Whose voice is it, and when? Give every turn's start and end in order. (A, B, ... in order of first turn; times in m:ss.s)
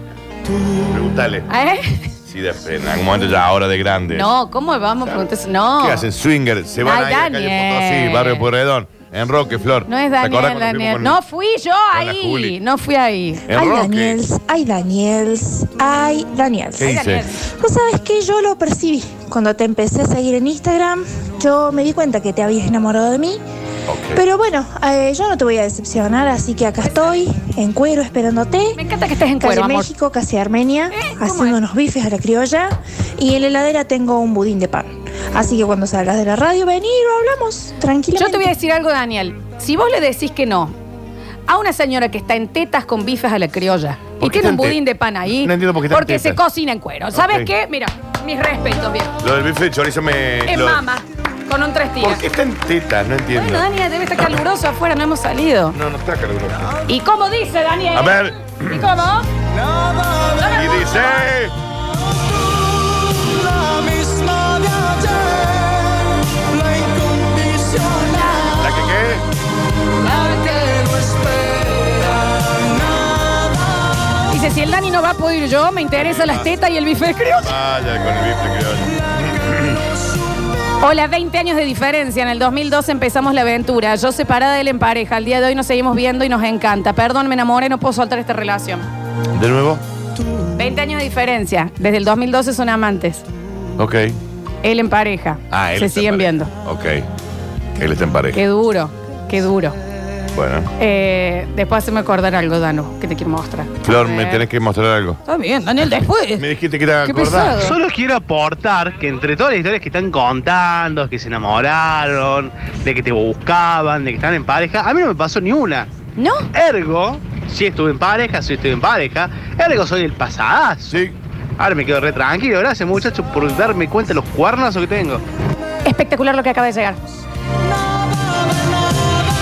0:00.9-0:01.5 A
0:01.5-0:02.1 B
0:02.2-0:04.3 A
0:04.1-0:06.0 B
0:05.8-0:11.2 A
0:06.8-0:08.5 B
0:09.9-0:13.4 B
0:11.9-0:12.6 A
0:13.5-0:14.2 A
0:13.5-0:17.0 C
0:16.8-0:17.2 A
0:16.8-0:17.4 B
0:17.6-0:23.4 C
0:23.9-0:24.2 A
0:24.1-0:28.8 C
0:28.7-0:29.9 B
0:29.4-0:38.5 C
0:30.9-0:31.6 B
0:38.1-0:40.7 B
0:41.5-0:49.1 B
0:44.2-0:46.4 A
0:47.1-0:47.5 A
0:49.2-0:50.8 A
0:50.4-0:52.2 B
0:52.0-0:53.6 A
0:53.3-0:55.8 B
0:55.7-0:56.8 A
0:56.9-0:59.3 B
0:57.9-0:58.8 A
1:00.4-1:01.2 B
1:00.5-1:01.5 A
1:07.8-1:08.6 B
1:08.6-1:09.2 A
1:10.1-1:10.8 B
1:14.3-1:17.5 B
1:16.0-1:16.5 A
1:17.4-1:19.8 A
1:20.8-1:28.9 B
1:29.3-1:29.8 A
1:30.6-1:33.2 B
1:33.8-1:34.2 A
1:34.6-1:36.5 B
1:35.5-1:37.1 A
1:37.8-1:38.4 A
1:38.3-1:39.8 B
1:40.3-1:40.7 A
1:40.8-1:44.4 B
1:43.8-1:45.2 A
1:45.2-1:46.4 B
1:46.4-1:47.7 A
1:47.0-1:47.7 B
1:47.6-1:55.9 D
1:56.2-1:56.4 B
1:56.5-2:01.0 D
2:00.9-2:01.1 A
2:01.6-2:05.2 D
2:05.8-2:07.0 B